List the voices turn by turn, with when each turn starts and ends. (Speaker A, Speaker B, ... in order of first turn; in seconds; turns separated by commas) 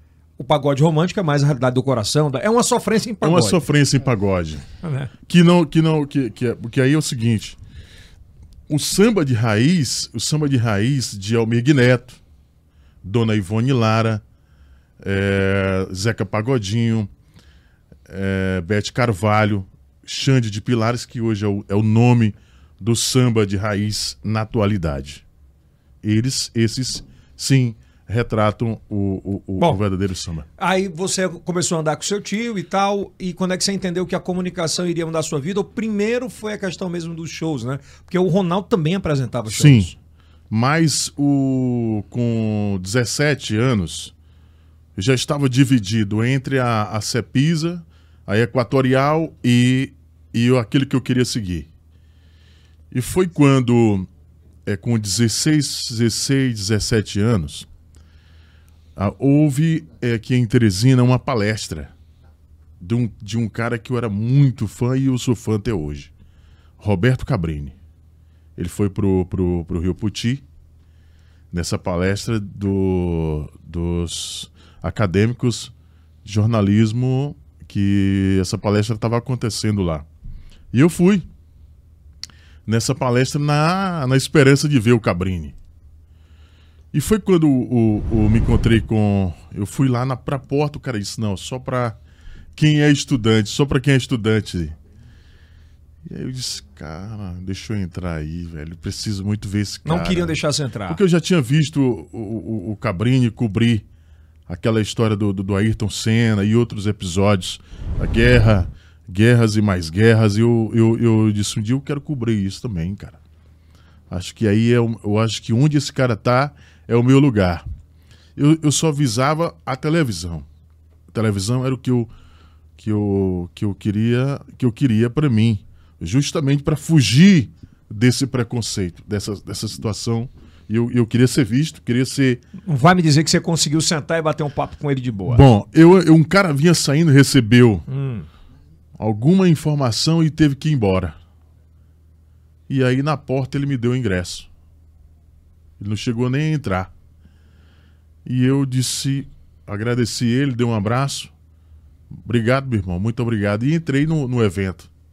Speaker A: 0.4-3.6, Speaker B: 3.2-4.7, Speaker A: 4.8-5.1, Speaker B: 5.2-7.6, Speaker B: 8.7-12.2, Speaker B: 13.0-14.2, Speaker B: 15.0-17.1, Speaker B: 18.1-25.2, Speaker B: 26.0-30.4, Speaker A: 30.6-39.9, Speaker B: 39.5-39.9, Speaker B: 40.5-44.1, Speaker B: 45.0-51.7, Speaker B: 52.9-54.1, Speaker B: 54.6-57.7, Speaker B: 59.0-61.9, Speaker B: 62.8-66.1, Speaker B: 66.8-67.8, Speaker B: 68.6-70.4, Speaker B: 71.5-75.7, Speaker B: 76.2-80.0, Speaker B: 80.7-81.3, Speaker B: 82.7-85.5, Speaker B: 86.9-92.0, Speaker B: 92.5-94.8, Speaker B: 96.0-103.8, Speaker A: 99.8-101.0, Speaker B: 104.5-113.2, Speaker B: 114.1-117.6, Speaker B: 118.3-120.5, Speaker B: 121.1-122.1, Speaker B: 122.8-132.4, Speaker A: 132.6-135.4, Speaker B: 135.2-137.8, Speaker A: 137.9-138.3, Speaker B: 139.0-141.2, Speaker B: 142.7-144.5, Speaker B: 145.8-146.9, Speaker B: 148.2-151.3, Speaker B: 152.1-154.9